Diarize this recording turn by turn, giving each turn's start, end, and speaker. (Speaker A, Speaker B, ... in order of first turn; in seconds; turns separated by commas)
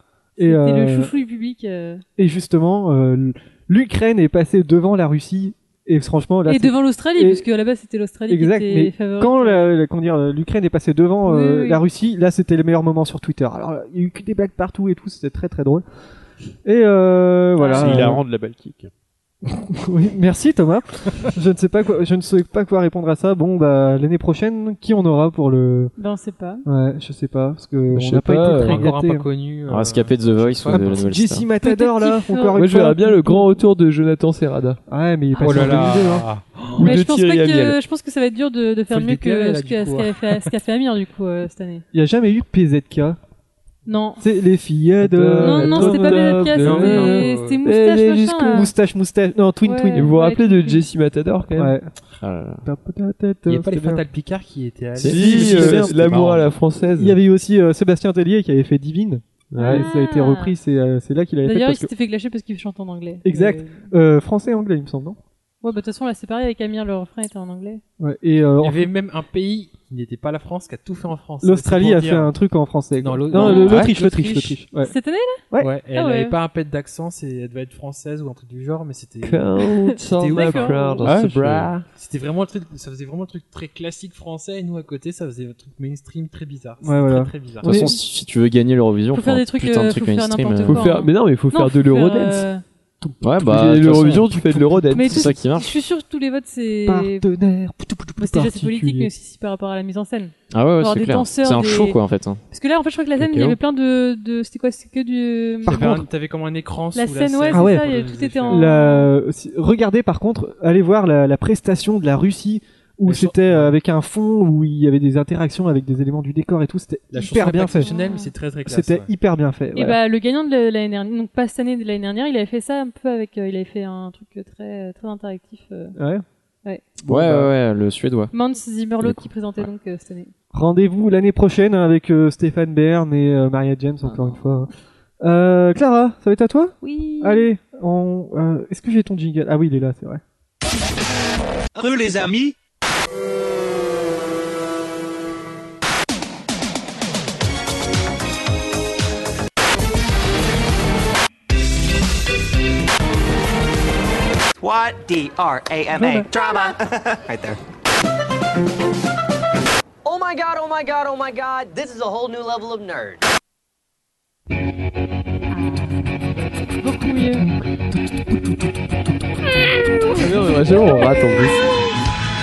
Speaker A: 0.4-2.0, Speaker B: 0.4-1.1, Speaker B: 2.2-7.4, Speaker A: 6.5-9.7, Speaker B: 8.3-15.8, Speaker A: 11.2-11.8, Speaker B: 16.6-18.2, Speaker A: 17.6-18.0, Speaker C: 17.7-18.9, Speaker B: 19.4-25.9, Speaker A: 26.0-26.6, Speaker B: 26.6-29.3, Speaker D: 27.9-28.9, Speaker E: 28.6-31.0, Speaker F: 29.7-31.4, Speaker B: 30.7-33.2, Speaker A: 31.6-33.5, Speaker D: 32.5-34.8, Speaker B: 34.9-36.3, Speaker E: 35.4-36.9, Speaker D: 36.8-37.8, Speaker A: 36.8-41.8, Speaker E: 38.9-40.5, Speaker B: 41.9-43.2, Speaker A: 43.9-44.2, Speaker B: 44.2-46.6, Speaker D: 45.0-48.6, Speaker A: 45.4-48.7, Speaker E: 46.6-47.6, Speaker B: 48.5-50.1, Speaker A: 49.6-50.9, Speaker D: 49.9-51.7, Speaker B: 51.5-51.9, Speaker F: 52.2-52.6, Speaker B: 52.6-54.0, Speaker E: 53.5-55.9, Speaker F: 55.0-55.4, Speaker D: 55.0-57.1, Speaker B: 55.1-56.0, Speaker C: 55.2-56.5, Speaker B: 57.0-61.9, Speaker D: 59.5-59.9, Speaker A: 59.6-60.5, Speaker A: 61.4-63.9, Speaker B: 63.2-65.2, Speaker A: 65.6-67.8, Speaker B: 68.0-68.9, Speaker E: 68.6-72.3, Speaker B: 71.4-74.9, Speaker E: 72.9-74.6, Speaker A: 73.3-73.8, Speaker C: 73.3-73.9, Speaker A: 74.8-76.4, Speaker E: 75.6-79.5, Speaker D: 79.2-81.8, Speaker A: 79.9-81.0, Speaker E: 80.2-81.0, Speaker C: 81.0-81.7, Speaker E: 81.8-87.8, Speaker B: 86.8-88.0, Speaker F: 87.6-90.8, Speaker A: 89.1-92.6, Speaker D: 90.6-92.5, Speaker B: 93.0-95.0, Speaker F: 93.2-94.3, Speaker D: 93.4-95.3, Speaker A: 94.9-97.2, Speaker F: 95.0-95.7, Speaker B: 96.8-99.1, Speaker A: 98.2-102.0, Speaker F: 100.5-102.4, Speaker A: 102.5-105.9, Speaker C: 103.2-103.5, Speaker B: 105.7-106.1, Speaker E: 105.7-108.8, Speaker A: 106.9-109.1, Speaker B: 107.5-107.9, Speaker B: 108.5-118.0, Speaker E: 113.0-113.8, Speaker E: 117.1-119.1, Speaker A: 117.8-118.3, Speaker B: 118.6-120.0, Speaker A: 119.7-126.0, Speaker B: 126.0-126.2, Speaker F: 127.0-128.3, Speaker B: 127.1-127.5, Speaker A: 128.3-130.3, Speaker B: 130.5-140.2, Speaker A: 136.8-137.5, Speaker G: 141.7-142.5, Speaker G: 154.6-157.6, Speaker B: 156.0-156.3, Speaker G: 160.0-163.2, Speaker A: 165.5-166.0, Speaker A: 166.8-167.5, Speaker D: 170.1-171.8